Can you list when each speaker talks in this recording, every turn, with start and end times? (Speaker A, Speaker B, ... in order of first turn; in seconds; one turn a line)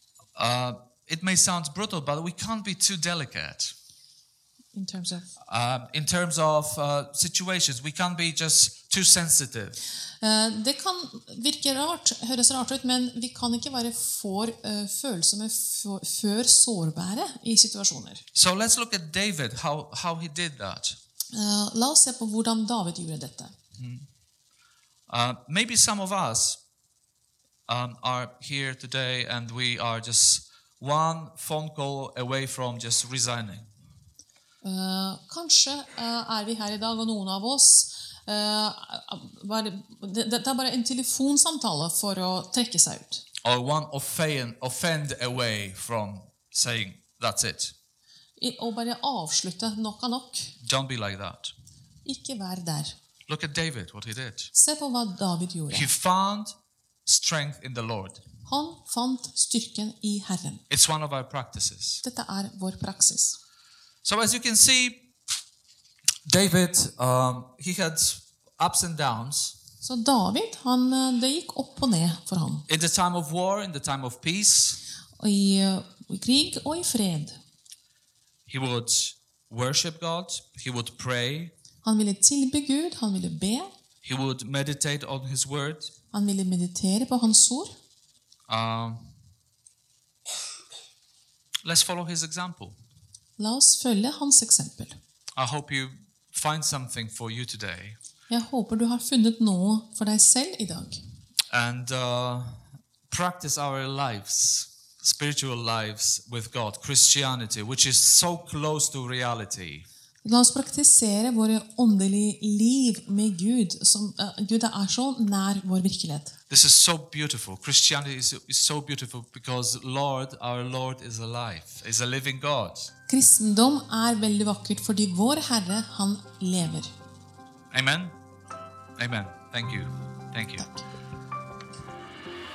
Speaker A: 0.4-3.7
Speaker B: 4.7-5.3
Speaker A: 5.5-9.8
Speaker B: 10.2-18.2
Speaker A: 18.4-21.0
Speaker B: 21.3-23.5
Speaker A: 23.8-24.1
Speaker A: 25.1-26.6
Speaker A: 27.7-33.7
Speaker B: 34.6-43.2
Speaker A: 43.4-47.7
Speaker B: 48.4-50.5
Speaker A: 50.6-51.5
Speaker B: 52.0-53.0
Speaker A: 53.3-54.5
Speaker B: 54.5-55.9
Speaker A: 55.7-56.5
Speaker A: 57.1-58.2
Speaker B: 58.5-60.6
Speaker A: 60.7-62.0
Speaker B: 62.0-63.4
Speaker A: 64.0-65.0
Speaker A: 66.2-69.6
Speaker B: 69.8-72.7
Speaker A: 72.7-74.8
Speaker B: 75.2-77.4
Speaker A: 78.5-81.5
Speaker B: 81.8-83.7
Speaker A: 84.0-85.9
Speaker B: 86.1-87.7
Speaker A: 88.5-89.1
Speaker A: 91.6-92.8
Speaker B: 93.4-95.0
Speaker A: 95.4-98.0
Speaker B: 98.3-101.0
Speaker A: 101.5-109.8
Speaker B: 110.2-116.3
Speaker A: 116.5-122.9
Speaker B: 123.1-126.9
Speaker A: 127.7-128.2
Speaker A: 129.0-130.7